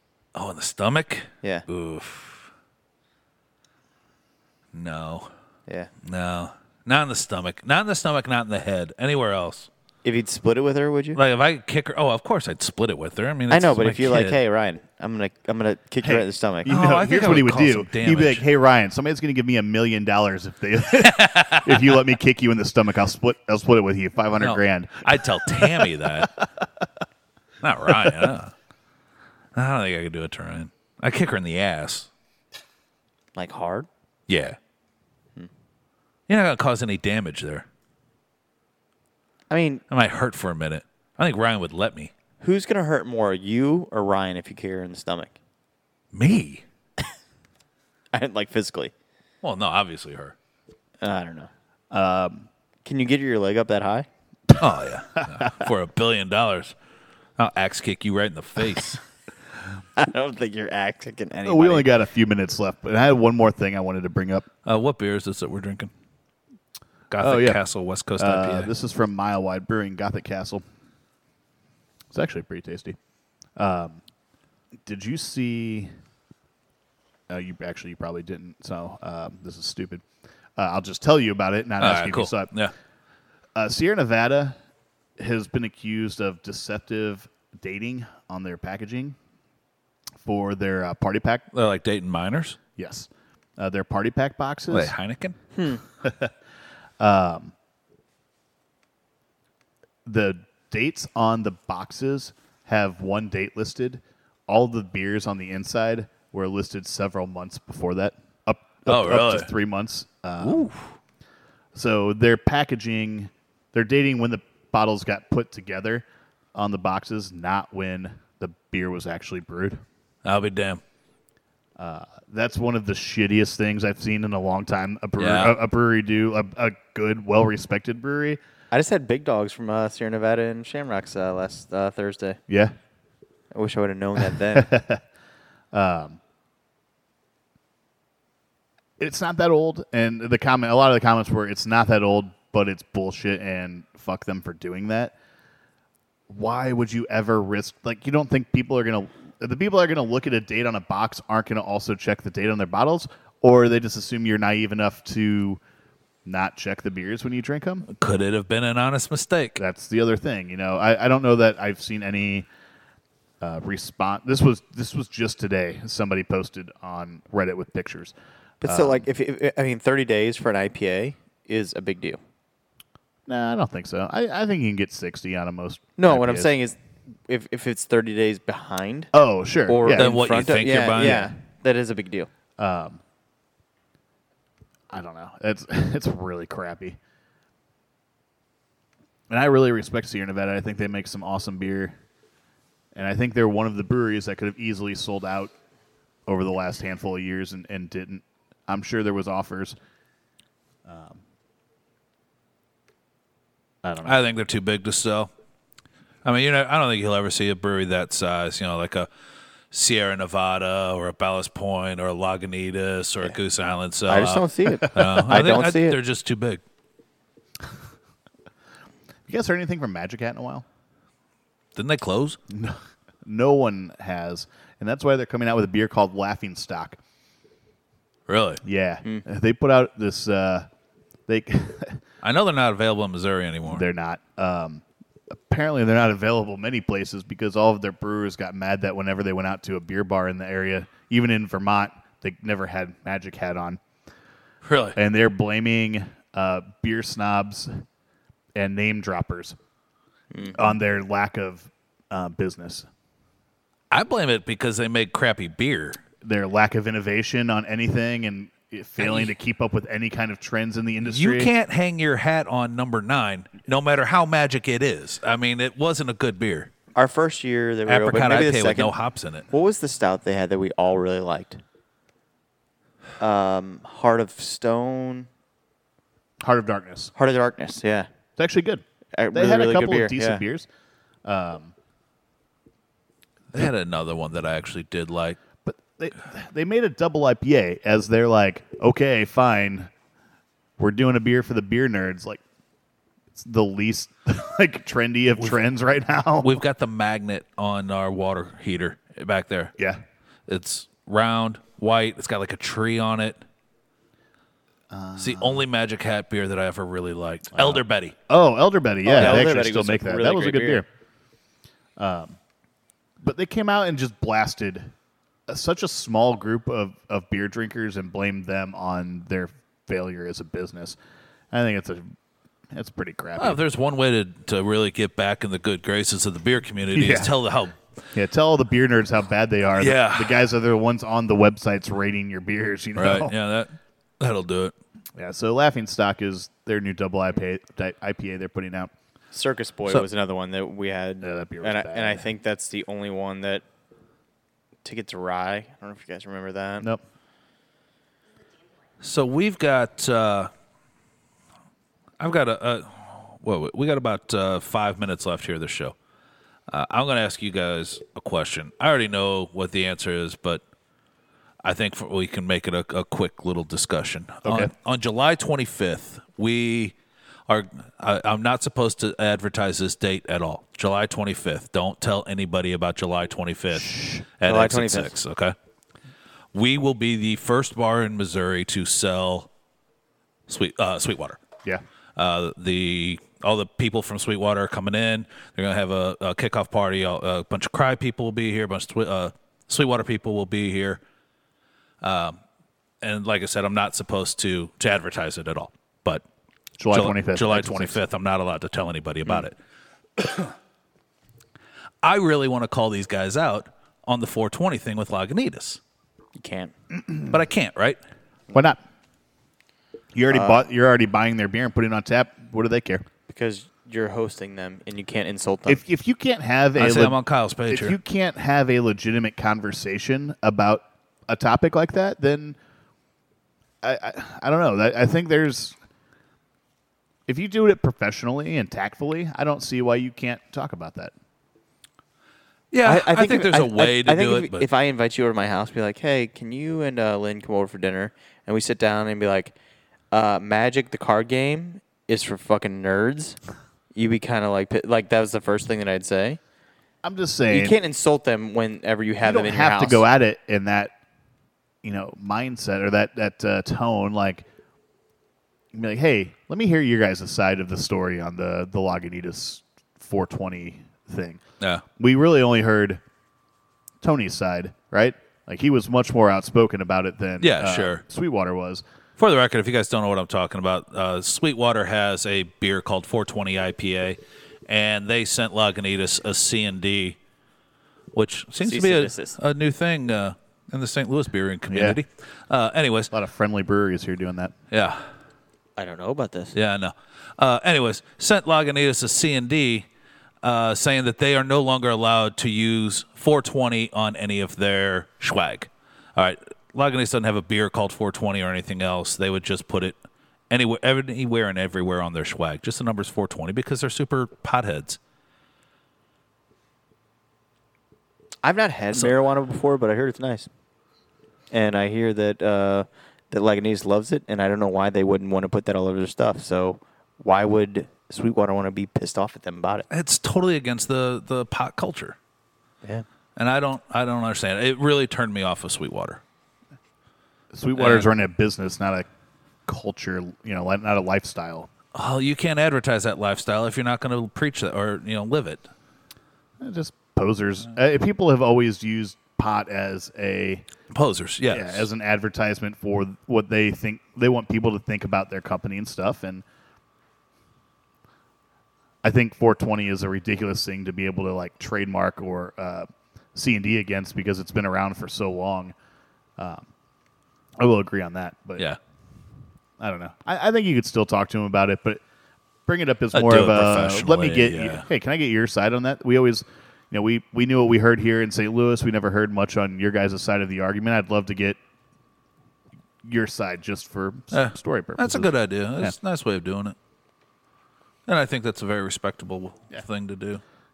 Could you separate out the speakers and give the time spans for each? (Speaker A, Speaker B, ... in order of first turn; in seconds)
Speaker A: 0.3-2.5, 4.7-5.3, 6.0-9.7, 11.1-14.4, 16.6-18.4, 20.9-21.8, 24.4-26.4, 27.6-28.5, 29.5-32.1, 34.3-34.6, 36.3-37.6, 39.9-42.1, 46.1-46.6, 49.4-50.3, 54.6-56.7, 57.4-59.0, 64.6-65.9, 67.1-68.7, 81.8-82.7, 91.5-92.6, 94.7-95.3, 108.9-109.5, 110.4-110.9, 120.2-120.8, 125.2-125.5, 157.9-159.6, 179.9-181.3, 204.0-205.3, 206.2-209.1, 209.7-216.6, 221.8-222.4, 228.3-228.6, 232.2-233.8, 244.6-245.0, 253.9-256.0, 261.0-266.7, 267.9-269.4, 283.5-285.4, 296.4-299.7, 300.5-303.4, 305.2-308.1, 323.4-327.8, 329.8-330.4, 332.9-334.7, 349.0-350.5, 352.2-355.9, 356.7-360.6, 361.6-366.9, 367.5-375.5, 376.5-379.5, 380.5-381.4, 382.1-391.0, 392.0-392.4, 393.0-396.2, 396.9-399.6, 400.2-400.5, 402.0-405.8, 407.3-408.0, 416.8-418.0, 432.7-434.7, 467.4-468.0, 469.2-477.2, 478.1-483.1, 484.7-485.0, 486.5-489.9, 490.4-500.0, 500.5-505.0, 519.9-522.1, 523.4-526.2, 527.8-528.1, 531.9-535.7, 540.9-541.9, 563.1-564.9, 574.3-576.8, 578.1-580.4
Speaker B: 10.0-11.2, 13.5-16.7, 33.3-33.9, 39.5-39.8, 42.4-45.4, 48.1-48.9, 51.0-51.5, 52.8-54.1, 60.0-61.9, 95.5-95.8, 128.7-132.4, 133.5-134.7, 168.6-172.2, 176.0-176.8, 177.3-179.1, 179.7-182.3, 214.1-215.9, 250.3-250.6, 266.9-268.9, 269.5-271.6, 273.2-275.3, 277.1-278.1, 279.1-280.4, 309.0-310.8, 339.3-343.6, 344.8-346.9, 374.4-375.1, 406.4-406.7, 410.3-410.6, 413.3-415.8, 432.8-439.5, 440.1-443.4, 443.9-446.4, 447.5-450.0, 478.6-479.4, 485.8-486.5, 508.4-510.5, 511.5-519.9
Speaker C: 16.0-26.6, 27.9-28.2, 51.9-52.5, 61.4-64.5, 67.2-67.6, 68.2-70.6, 72.1-73.0, 73.6-74.0, 74.8-75.9, 77.3-80.0, 80.6-82.5, 83.5-84.5, 85.2-89.2, 90.2-91.4, 92.8-94.9, 96.0-96.3, 97.0-97.5, 100.0-110.7, 111.7-119.8, 121.8-128.4, 132.5-132.7, 134.3-135.0, 135.7-136.2, 139.0-145.1, 146.3-155.6, 156.2-157.9, 159.6-162.5, 163.4-169.1, 173.3-176.5, 179.1-180.1, 181.0-181.3, 182.6-183.0, 184.9-187.0, 189.3-191.9, 192.9-195.5, 196.3-199.8, 200.8-201.2, 203.8-204.2, 214.8-215.3, 219.3-220.7, 222.5-227.0, 228.6-230.7, 231.3-232.0, 233.7-243.8, 244.9-247.8, 248.6-249.6, 250.5-252.9, 256.2-261.5, 276.4-277.1, 278.4-280.7, 281.2-281.7, 285.6-289.9, 290.8-292.4, 293.3-296.5, 304.9-305.6, 307.5-310.9, 312.0-312.4, 313.2-314.9, 315.5-321.0, 321.5-322.1, 322.7-323.6, 326.9-327.3, 328.1-333.3, 335.1-338.9, 341.2-342.3, 364.4-364.7, 373.7-374.2, 396.8-398.0, 408.5-408.8, 410.1-413.1, 415.7-422.6, 423.8-425.8, 427.3-431.1, 447.0-447.8, 449.2-450.9, 451.8-454.4, 455.7-461.4, 462.0-463.0, 464.0-468.8, 481.7-482.0, 483.1-484.5, 527.5-529.1, 529.6-531.7, 536.6-540.6, 541.5-546.4, 549.0-555.7, 556.4-556.7, 557.6-558.7, 559.8-562.0, 562.7-571.6, 573.0-575.9